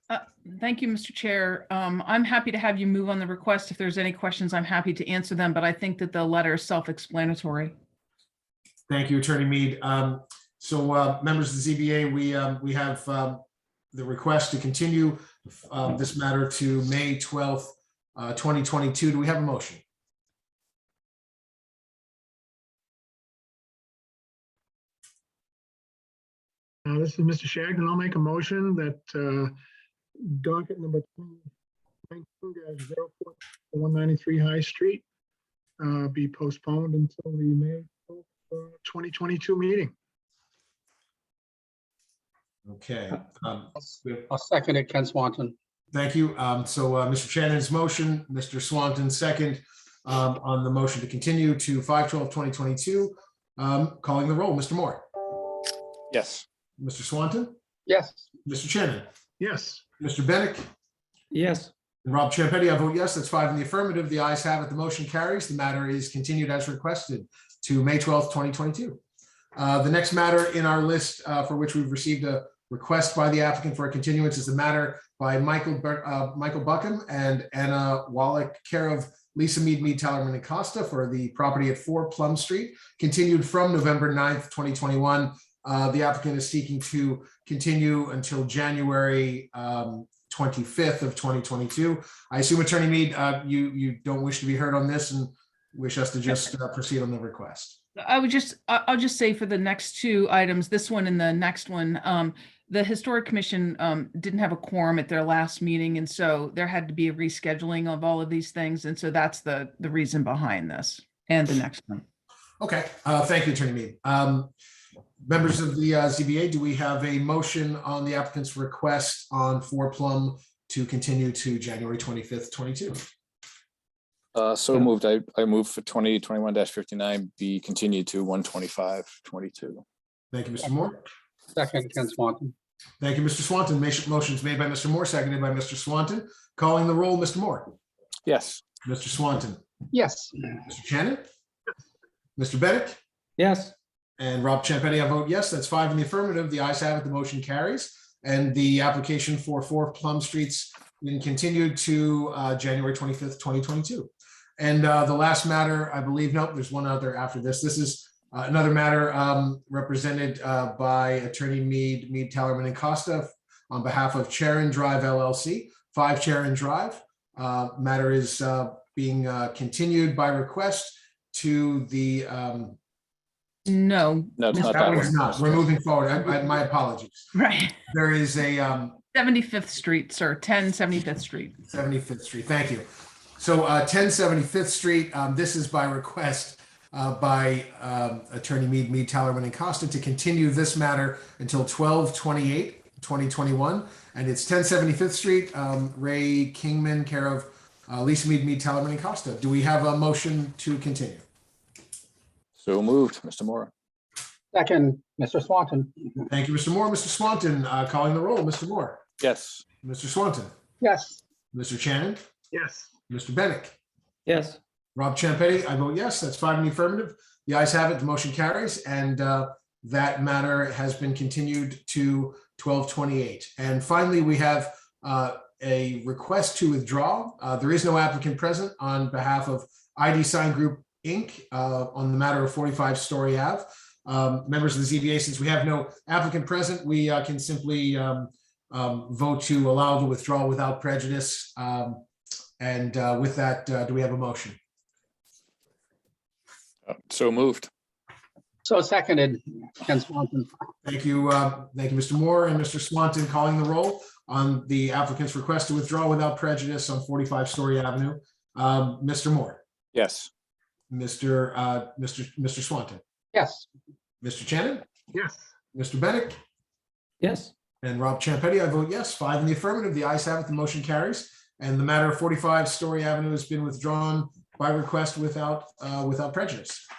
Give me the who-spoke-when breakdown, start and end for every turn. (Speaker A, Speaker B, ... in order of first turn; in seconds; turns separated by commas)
Speaker A: 0.1-7.7, Speaker B: 8.9-13.4, Speaker B: 13.9-19.8, Speaker C: 26.9-29.5, Speaker C: 30.2-31.5, Speaker C: 32.1-35.0, Speaker C: 35.8-39.9, Speaker B: 42.6-44.3, Speaker D: 44.3-45.5, Speaker B: 45.9-55.0, Speaker E: 56.1-56.4, Speaker B: 56.8-57.5, Speaker D: 57.9-58.3, Speaker B: 58.5-59.1, Speaker C: 59.4-59.8, Speaker B: 60.0-60.6, Speaker B: 62.0-69.0, Speaker B: 69.5-97.8, Speaker A: 98.0-112.0, Speaker B: 112.6-114.5, Speaker B: 115.2-123.1, Speaker E: 124.3-129.8, Speaker B: 130.3-131.1, Speaker D: 131.5-132.5, Speaker B: 133.0-137.7, Speaker E: 138.2-138.6, Speaker B: 138.8-139.6, Speaker D: 139.9-140.6, Speaker B: 140.7-141.2, Speaker B: 142.4-143.0, Speaker B: 144.2-172.8, Speaker A: 173.7-175.1, Speaker E: 174.4-175.6, Speaker B: 174.5-177.3, Speaker A: 177.3-177.8, Speaker B: 177.9-179.0, Speaker A: 179.1-181.6, Speaker B: 181.7-182.9, Speaker B: 183.4-201.2, Speaker E: 202.6-203.7, Speaker D: 204.5-206.2, Speaker B: 206.3-209.0, Speaker E: 209.2-209.6, Speaker B: 209.8-210.5, Speaker D: 210.8-211.2, Speaker B: 211.5-212.2, Speaker C: 212.5-212.9, Speaker B: 213.1-213.8, Speaker B: 214.9-242.0, Speaker B: 242.6-244.6, Speaker E: 246.8-247.7, Speaker D: 248.6-250.5, Speaker B: 250.8-259.6, Speaker E: 259.9-260.3, Speaker B: 260.9-263.0, Speaker D: 263.3-263.7, Speaker B: 264.2-264.9, Speaker C: 265.1-265.5, Speaker B: 265.7-266.4, Speaker B: 267.8-276.9